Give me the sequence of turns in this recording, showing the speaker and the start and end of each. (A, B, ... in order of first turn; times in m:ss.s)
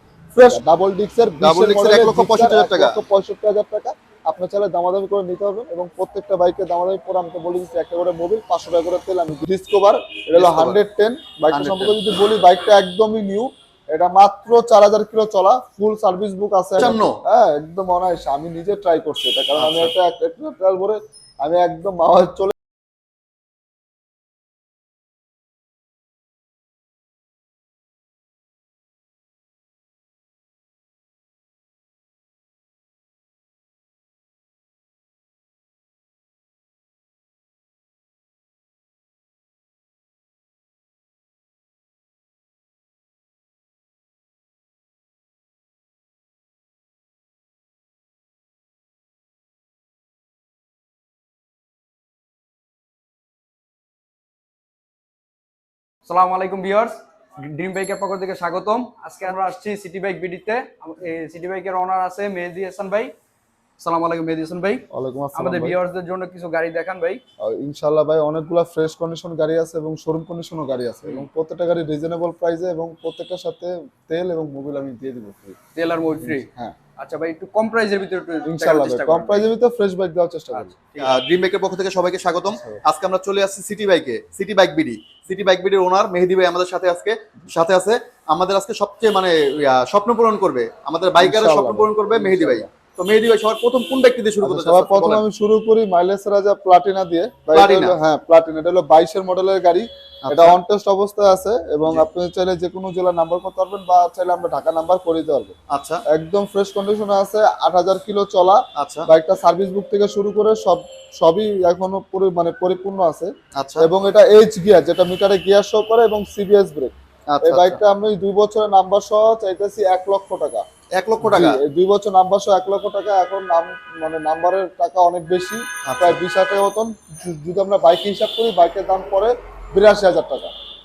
0:00.3-0:22.5 A
0:01.4-0:03.0 B
0:10.4-0:10.8 B
0:11.5-0:11.9 B
0:16.8-0:17.2 B
0:19.6-0:19.9 B
0:56.0-1:03.1 C
1:03.8-1:07.2 C
1:04.9-1:05.8 A
1:07.4-1:15.6 A
1:15.7-1:19.5 C
1:16.2-1:16.8 A
1:18.4-1:21.1 A
1:21.0-1:35.2 B
1:31.2-1:32.7 A
1:34.4-1:45.5 A
1:37.5-1:38.0 B
1:40.2-1:40.6 B
1:45.7-1:46.0 B
1:46.1-1:56.9 A
1:48.7-1:49.1 B
1:53.6-1:53.9 B
1:57.3-1:57.8 B
1:57.4-2:00.6 A
2:01.0-2:01.6 B
2:01.2-2:10.5 A
2:05.9-2:06.2 B